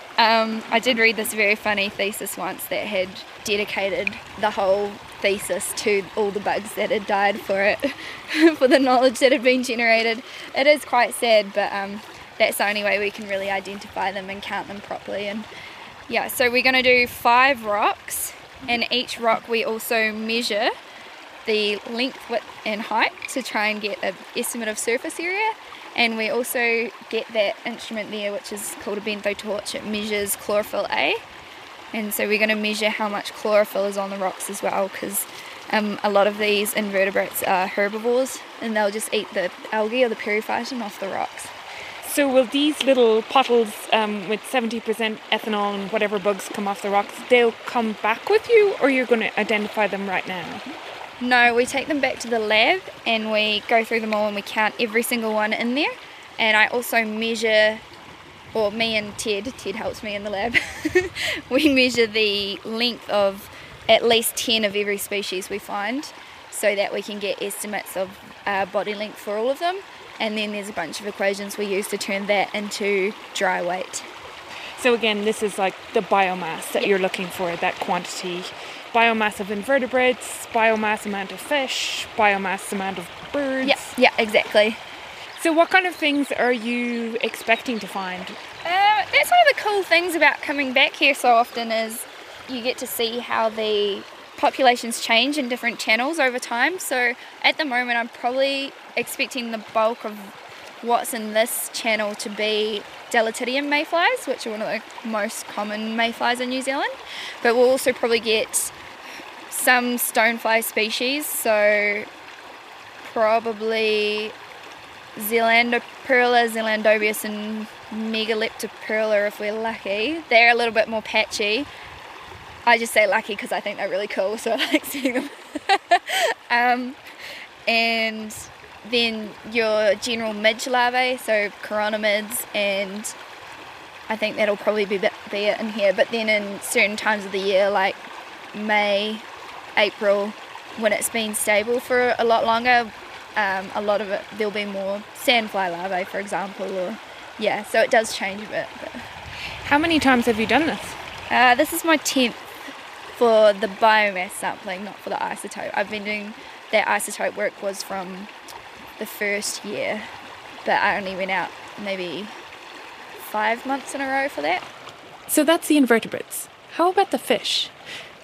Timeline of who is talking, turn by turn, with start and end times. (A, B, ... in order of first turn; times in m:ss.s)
0:00.2-0:15.5 A
0:16.1-0:20.7 A
0:21.4-0:31.2 A
0:31.9-0:41.5 A
0:42.0-0:50.6 B
0:51.2-0:57.8 A
0:58.5-1:14.1 A
1:14.8-1:23.8 B
1:23.6-1:24.8 A
1:25.4-1:28.4 B
1:28.6-1:48.7 A
1:49.5-1:52.1 A
1:53.0-1:54.3 A
1:55.2-2:01.7 A
2:02.6-2:07.0 A
2:07.7-2:13.1 A
2:14.1-2:19.2 A
2:19.8-2:29.0 A
2:29.6-2:31.0 B
2:31.3-2:32.4 A
2:33.2-2:38.3 A
2:39.0-2:40.1 A
2:40.6-2:42.3 A
2:43.2-2:44.6 A
2:45.3-2:47.7 B